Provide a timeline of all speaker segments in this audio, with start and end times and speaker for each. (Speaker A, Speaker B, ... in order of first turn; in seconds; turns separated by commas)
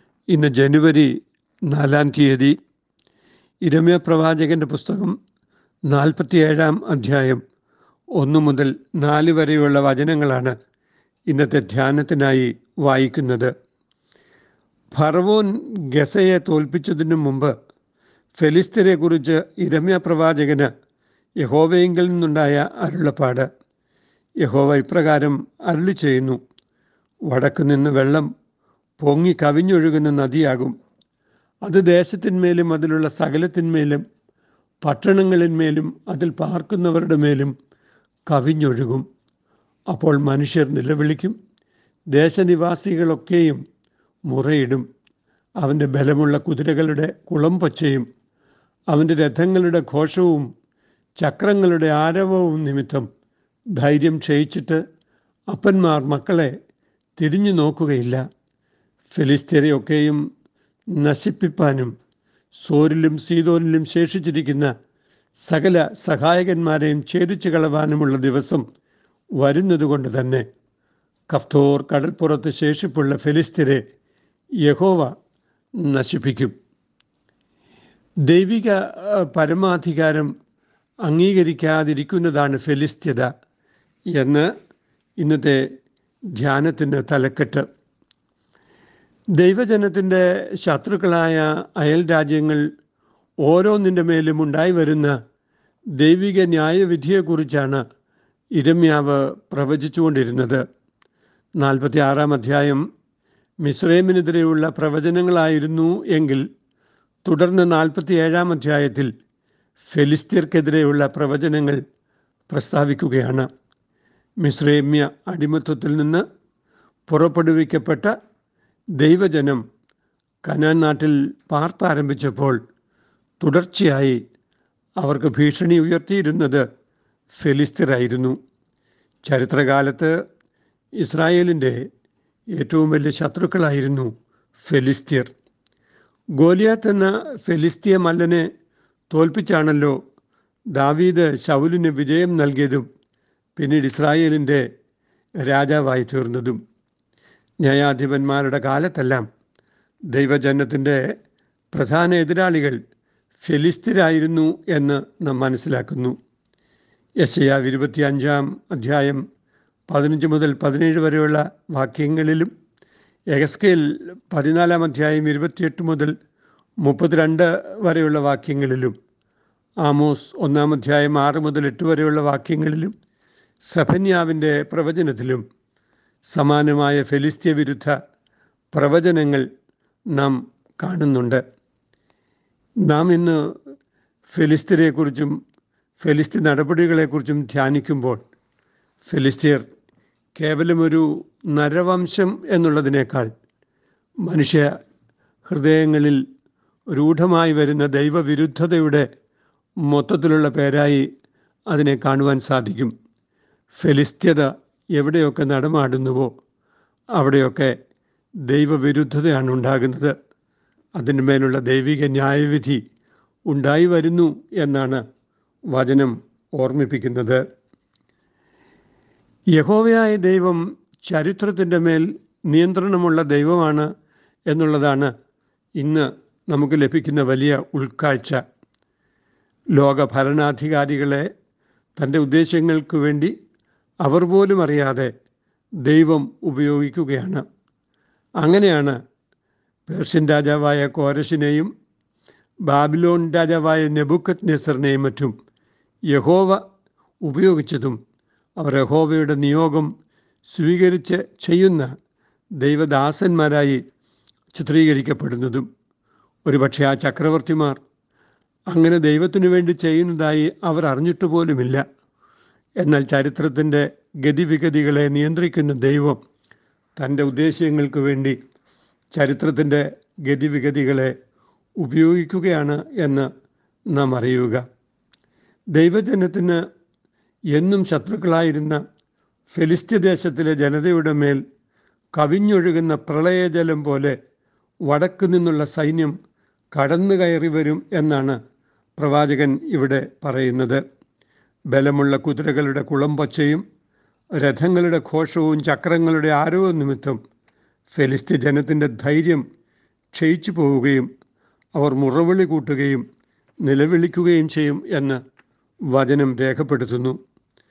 Speaker A: 0.3-1.1, Speaker A: 1.7-2.6, Speaker A: 3.6-5.1, Speaker A: 5.9-7.4, Speaker A: 8.2-10.5, Speaker A: 11.3-13.5, Speaker A: 14.9-17.5, Speaker A: 18.4-20.7, Speaker A: 21.4-23.5, Speaker A: 24.4-26.4, Speaker A: 27.3-28.3, Speaker A: 29.0-30.7, Speaker A: 31.6-34.0, Speaker A: 34.8-37.5, Speaker A: 38.3-39.0, Speaker A: 39.9-41.4, Speaker A: 42.1-43.6, Speaker A: 44.3-44.8, Speaker A: 45.6-48.0, Speaker A: 48.9-50.5, Speaker A: 51.2-53.0, Speaker A: 53.7-54.8, Speaker A: 55.5-56.5, Speaker A: 57.2-58.2, Speaker A: 59.1-60.2, Speaker A: 60.9-61.9, Speaker A: 62.6-64.7, Speaker A: 65.4-68.6, Speaker A: 69.4-70.4, Speaker A: 71.3-73.8, Speaker A: 74.6-75.1, Speaker A: 75.8-76.5, Speaker A: 78.2-80.3, Speaker A: 81.0-83.3, Speaker A: 84.1-84.5, Speaker A: 85.2-85.6, Speaker A: 86.3-87.6, Speaker A: 89.3-92.6, Speaker A: 93.4-95.1, Speaker A: 96.0-97.8, Speaker A: 98.5-100.6, Speaker A: 101.6-102.8, Speaker A: 103.6-106.5, Speaker A: 107.2-109.1, Speaker A: 109.9-111.8, Speaker A: 112.5-113.5, Speaker A: 114.4-116.2, Speaker A: 117.1-118.1, Speaker A: 119.0-119.6, Speaker A: 120.4-122.6, Speaker A: 123.4-124.2, Speaker A: 125.0-126.6, Speaker A: 127.3-128.4, Speaker A: 129.2-130.1, Speaker A: 131.0-131.8, Speaker A: 132.6-135.3, Speaker A: 136.4-138.5, Speaker A: 139.1-139.9, Speaker A: 140.7-142.8, Speaker A: 143.6-144.7, Speaker A: 145.4-146.6, Speaker A: 147.6-149.2, Speaker A: 150.1-151.0, Speaker A: 151.7-152.8, Speaker A: 153.4-156.1, Speaker A: 157.2-159.2, Speaker A: 159.9-162.5, Speaker A: 163.3-166.1, Speaker A: 166.8-168.9, Speaker A: 169.8-172.9, Speaker A: 173.6-175.4, Speaker A: 176.3-177.9, Speaker A: 178.7-179.4, Speaker A: 180.1-181.4, Speaker A: 182.8-183.4, Speaker A: 184.3-185.3, Speaker A: 186.0-188.2, Speaker A: 189.0-189.6, Speaker A: 190.3-193.3, Speaker A: 194.2-194.7, Speaker A: 195.4-196.2, Speaker A: 196.9-199.1, Speaker A: 199.8-201.1, Speaker A: 201.7-202.9, Speaker A: 203.7-206.3, Speaker A: 207.2-207.8, Speaker A: 208.4-210.1, Speaker A: 211.0-212.8, Speaker A: 213.5-215.0, Speaker A: 215.7-217.4, Speaker A: 219.5-223.9, Speaker A: 224.5-225.1, Speaker A: 225.8-228.4, Speaker A: 229.8-231.3, Speaker A: 232.0-233.3, Speaker A: 234.0-235.1, Speaker A: 235.8-237.4, Speaker A: 238.4-239.0, Speaker A: 239.9-241.7, Speaker A: 242.7-245.3, Speaker A: 246.1-246.6, Speaker A: 247.2-248.0, Speaker A: 248.6-249.9, Speaker A: 250.5-251.9, Speaker A: 252.6-253.8, Speaker A: 254.5-255.7, Speaker A: 256.4-257.8, Speaker A: 258.7-261.8, Speaker A: 262.8-266.2, Speaker A: 267.0-268.4, Speaker A: 269.1-271.1, Speaker A: 271.8-273.3, Speaker A: 273.9-274.6, Speaker A: 275.7-276.6, Speaker A: 277.5-278.8, Speaker A: 279.5-281.4, Speaker A: 282.1-284.1, Speaker A: 284.9-286.1, Speaker A: 286.7-288.4, Speaker A: 289.0-290.8, Speaker A: 291.7-293.6, Speaker A: 294.4-297.2, Speaker A: 297.9-299.4, Speaker A: 300.1-301.1, Speaker A: 301.8-303.0, Speaker A: 303.6-305.2, Speaker A: 305.9-307.2